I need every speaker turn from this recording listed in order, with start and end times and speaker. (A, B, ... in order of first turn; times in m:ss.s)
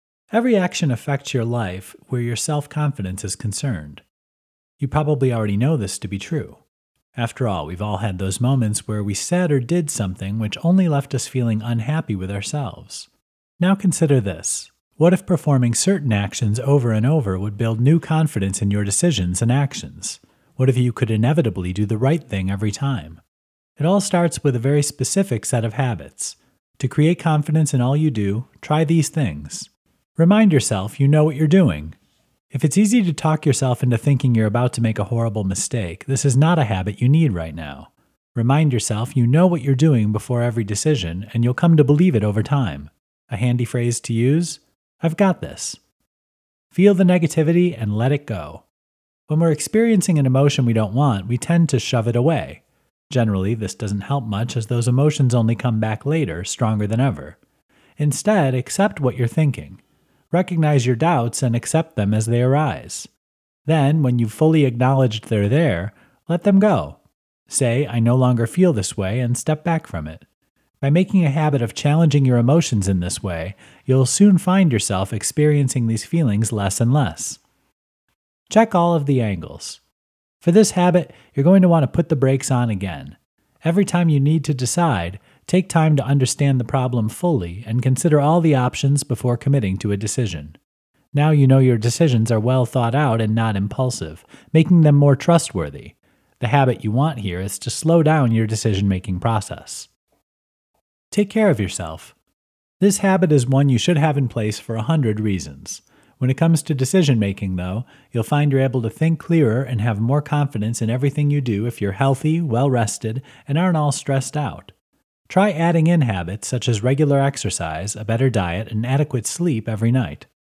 0:00.3-0:04.0 A
0:04.8-0:06.6 A
0:07.2-0:23.2 A
0:23.8-0:32.0 A
0:32.5-0:45.8 A
0:46.7-0:48.6 A
0:49.3-0:57.4 A
0:58.0-1:03.1 A
1:03.6-1:07.0 A
1:07.5-1:10.2 A
1:10.8-1:17.4 A
1:18.5-1:19.8 A
1:20.4-1:30.6 A
1:31.1-1:39.9 A
1:41.1-1:42.1 A
1:42.8-1:54.7 A
1:55.3-2:00.3 A